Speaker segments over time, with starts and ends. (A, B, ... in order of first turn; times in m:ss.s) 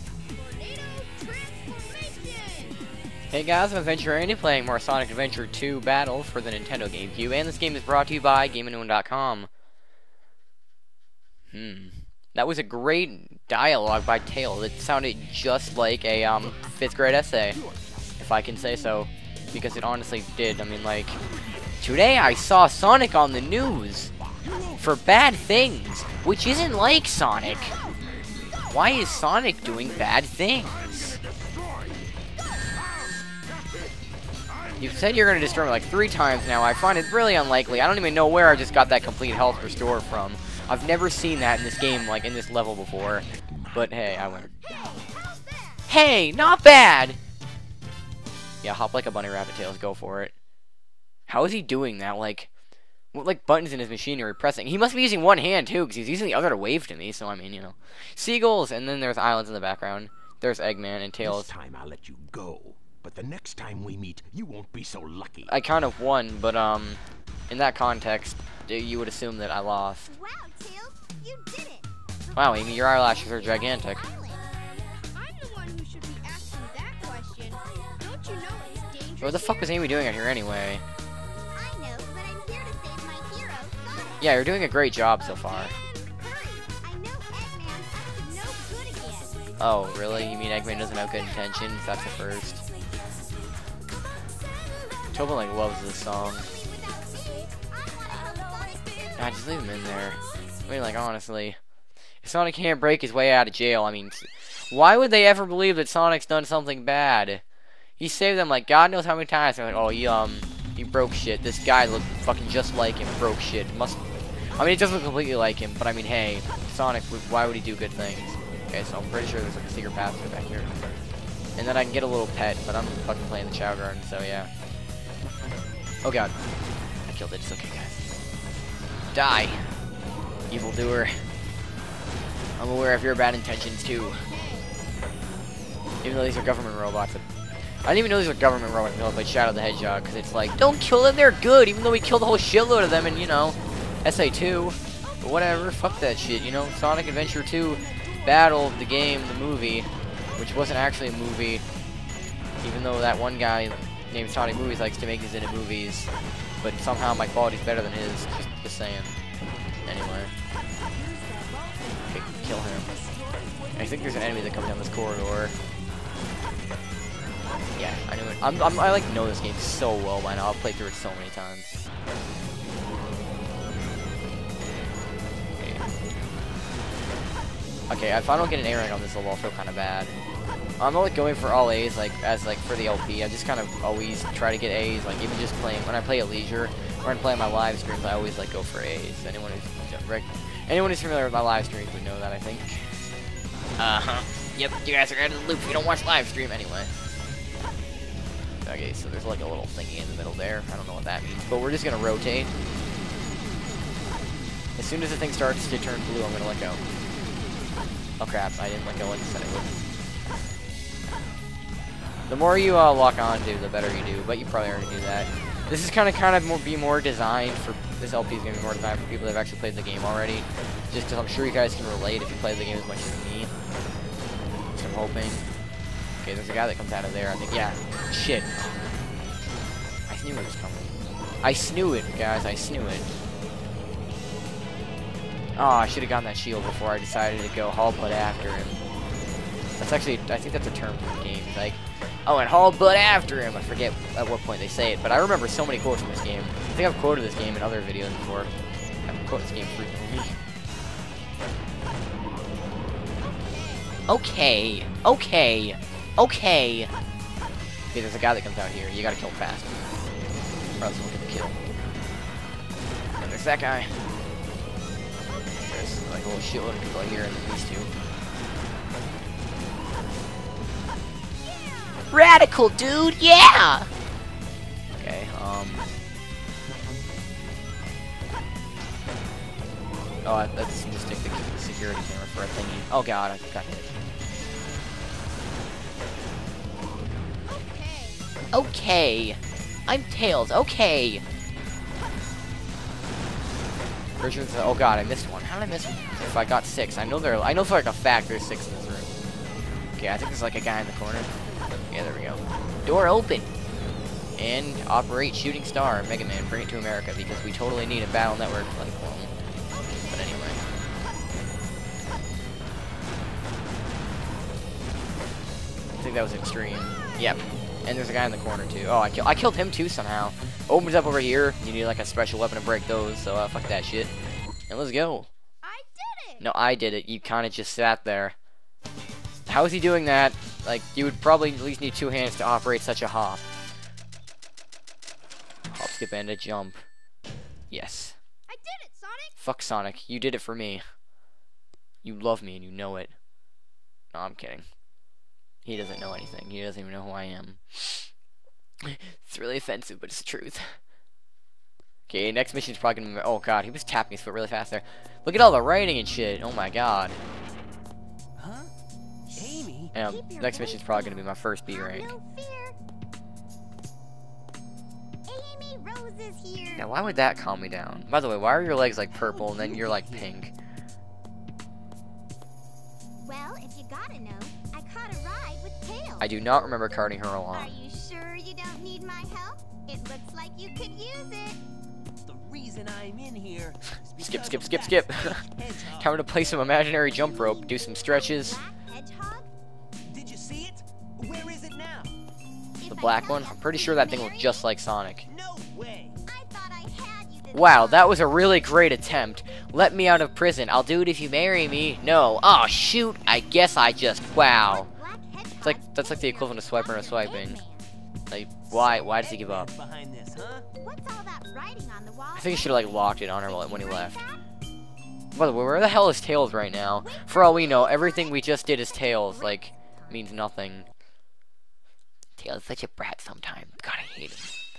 0:00.3-0:02.9 A
0:03.3-0:09.5 B
0:11.5-0:17.6 B
0:17.6-0:18.1 C
0:18.2-0:21.2 B
0:21.8-0:24.1 B
0:24.8-0:27.8 B
0:28.7-0:31.2 B
0:31.6-0:31.9 C
0:34.8-0:44.5 B
0:43.5-0:45.0 C
0:44.7-0:45.9 D
0:45.9-0:47.2 B
0:48.6-0:50.3 B
0:51.3-0:52.5 B
0:53.1-1:01.5 B
1:01.2-1:05.6 C
1:05.5-1:10.1 B
1:10.1-1:14.4 D
1:12.4-1:14.0 B
1:15.1-1:19.9 A
1:19.2-1:20.8 B
1:21.5-1:24.3 D
1:24.2-1:25.8 B
1:26.2-1:29.4 D
1:29.6-1:32.6 B
1:30.6-1:32.0 D
1:34.2-1:35.4 D
1:35.1-1:36.5 B
1:36.1-1:39.8 D
1:39.2-1:41.6 B
1:42.2-1:47.4 B
1:48.0-1:54.0 B
1:54.6-2:00.9 B
2:01.6-2:04.5 B
2:06.0-2:06.3 B
2:07.1-2:08.1 B
2:09.1-2:09.6 B
2:10.5-2:11.1 B
2:12.6-2:14.2 B
2:14.3-2:14.7 A
2:16.0-2:17.3 B
2:17.8-2:31.6 B
2:27.6-2:28.6 A
2:32.6-2:36.1 B
2:36.6-2:39.1 B
2:39.9-2:40.3 B
2:40.9-2:44.5 E
2:42.0-2:42.9 B
2:43.8-2:45.6 B
2:47.8-2:51.8 B
2:57.9-3:00.2 B
3:00.8-3:12.9 B
3:13.8-3:16.9 B
3:18.6-3:22.5 B
3:24.8-3:26.8 B
3:28.2-3:29.8 B
3:32.3-3:43.5 B
3:44.8-3:45.5 B
3:46.2-3:48.8 B
3:50.1-3:53.1 B
3:55.6-3:58.8 B
3:59.8-4:08.5 B
4:09.1-4:10.4 B
4:13.4-4:14.0 A
4:14.1-4:16.9 B
4:17.9-4:19.8 B
4:20.8-4:21.6 B
4:23.2-4:24.0 B
4:25.3-4:25.7 A
4:25.6-4:27.9 B
4:31.6-4:32.1 D
4:32.1-4:33.9 B
4:35.0-4:35.9 B
4:40.2-4:43.9 B
4:47.5-4:48.2 A
4:48.5-4:51.2 B
4:54.2-4:59.1 B
5:00.0-5:01.3 B
5:01.9-5:03.5 B
5:04.4-5:09.3 B
5:10.0-5:10.6 B
5:16.0-5:24.1 B
5:24.7-5:25.3 B
5:25.6-5:26.4 A
5:26.4-5:28.4 B
5:29.5-5:33.5 B
5:35.7-5:36.8 B
5:37.7-5:38.2 B
5:38.5-5:39.4 A
5:39.4-5:40.8 B
5:42.0-5:43.1 B
5:44.1-5:44.7 B
5:45.6-5:48.1 B
5:48.8-5:50.8 B
5:52.1-5:57.2 B
5:58.4-5:58.7 E
5:59.3-5:59.9 E
5:59.3-6:02.8 D
5:59.9-6:02.1 B
6:05.3-6:06.9 D
6:06.8-6:10.5 B
6:09.2-6:10.3 E
6:13.2-6:16.4 D
6:16.2-6:17.8 B
6:17.5-6:21.6 D
6:22.3-6:26.2 E
6:24.2-6:28.6 B
6:27.2-6:29.5 D
6:30.1-6:32.1 E
6:32.8-6:34.7 D
6:32.9-6:35.3 B
6:35.3-6:36.2 E
6:36.3-6:38.3 D
6:37.5-6:44.9 B
6:44.6-6:47.9 D
6:45.6-6:47.6 B
6:48.3-6:49.7 B
6:48.8-6:50.7 E
6:50.8-6:54.4 D
6:52.4-6:54.2 B
6:55.4-7:00.9 B
6:57.0-7:00.2 D
7:02.4-7:04.5 B